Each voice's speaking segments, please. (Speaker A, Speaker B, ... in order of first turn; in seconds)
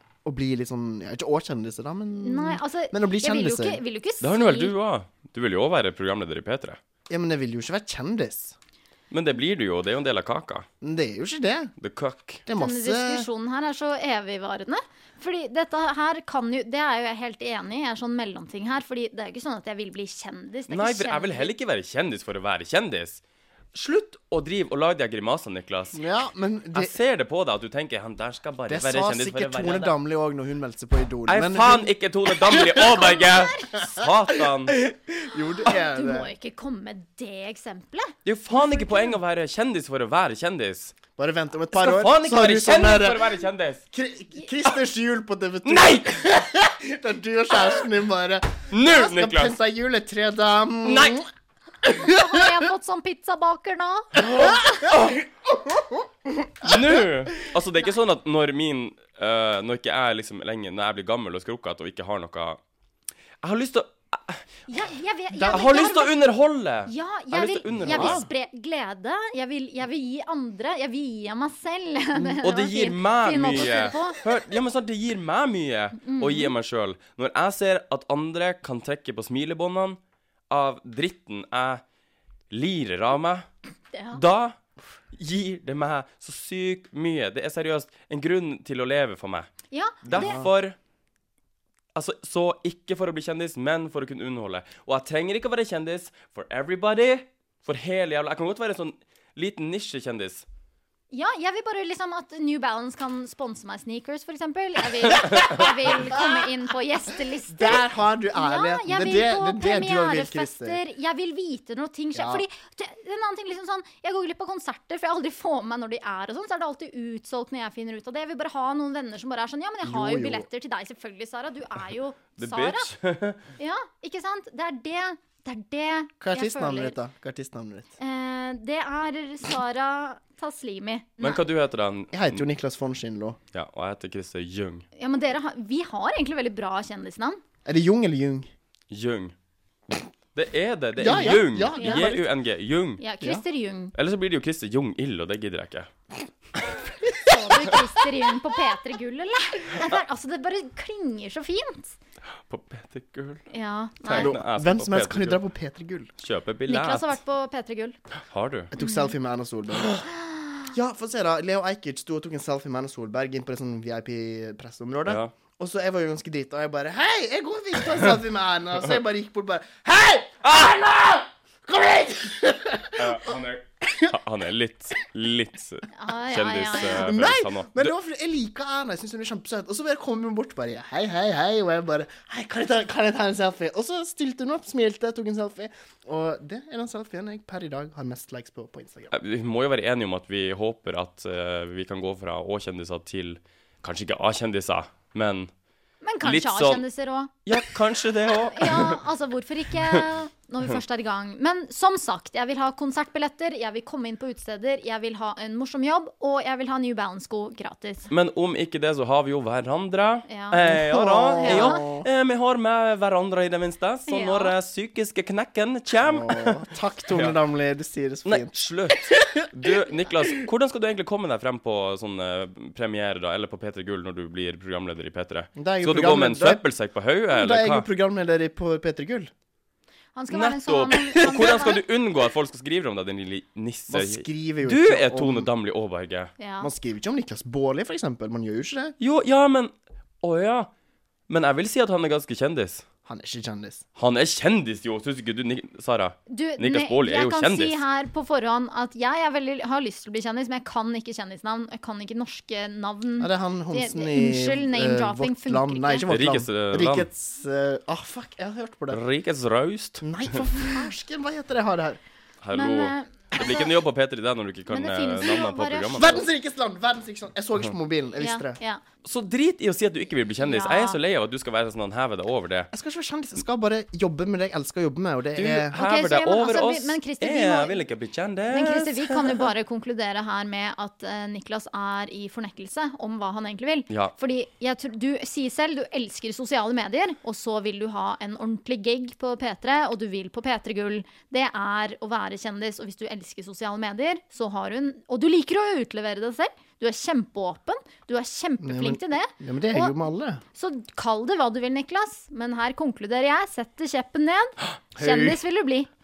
Speaker A: 0.2-3.8, 7.1-8.5, 10.8-11.7, 12.5-13.3, 25.9-26.9, 28.7-31.9, 34.8-36.3, 41.1-43.4, 43.9-51.2, 54.2-55.0, 65.3-66.0, 67.8-68.2, 90.1-90.5, 107.5-110.8, 112.1-112.4, 119.8-120.5, 126.2-127.9, 132.1-133.4, 137.7-138.5, 141.0-142.3, 154.1-156.1, 158.7-160.0, 160.7-173.3, 176.7-189.1, 210.7-212.1, 216.0-219.4, 225.6-226.6, 227.3-229.3, 233.9-235.5, 236.6-238.9, 243.0-243.8, 253.2-259.0, 260.0-262.0, 265.9-268.6, 272.7-275.8, 298.6-300.4, 305.0-305.4
Speaker B: 2.2-4.7, 12.6-21.5, 32.8-33.7, 35.6-39.2, 51.9-54.7, 64.7-66.1, 66.9-74.3, 76.0-76.5, 83.9-84.2, 89.7-90.4, 101.1-122.9, 123.6-127.0, 128.0-131.4, 134.9-137.4, 141.8-142.1, 143.0-143.9, 147.2-151.9, 153.5-154.3, 156.7-158.0, 158.8-159.1, 160.0-160.7, 175.9-177.1, 196.0-197.3, 198.5-208.1, 210.3-210.7, 211.4-211.8, 214.1-214.5, 230.1-231.8, 236.4-236.7, 246.3-256.1, 262.5-263.6, 264.7-266.2, 268.1-268.8, 270.4-271.0, 275.7-277.8, 278.5-299.9, 300.5-305.9
Speaker C: 4.2-6.8, 9.1-10.7, 11.8-12.4, 20.7-23.2, 23.7-26.0, 26.7-29.9, 31.3-34.8, 38.2-41.0, 41.7-43.8, 45.6-46.2, 48.7-49.6, 50.8-51.2, 54.4-55.2, 56.6-62.6, 63.4-64.4, 65.5-68.2, 72.1-80.0, 80.5-81.8, 82.5-83.4, 84.1-84.6, 85.1-89.5, 90.0-90.8, 91.9-100.4, 105.2-105.6, 122.4-123.4, 131.2-132.5, 133.5-134.8, 138.9-139.3, 140.3-143.0, 143.9-145.9, 146.6-146.8, 152.5-153.5, 154.0-155.4, 156.2-157.2, 158.3-158.7, 159.7-160.0, 165.1-165.3, 170.4-170.9, 172.9-177.9, 189.1-195.5, 196.2-196.8, 197.4-199.0, 208.1-216.6, 217.1-217.4, 218.2-227.9, 230.3-236.3, 239.0-240.7, 241.3-242.8, 244.0-247.8, 256.1-257.1, 258.9-260.4, 262.4-266.2, 269.0-272.7, 275.3-279.5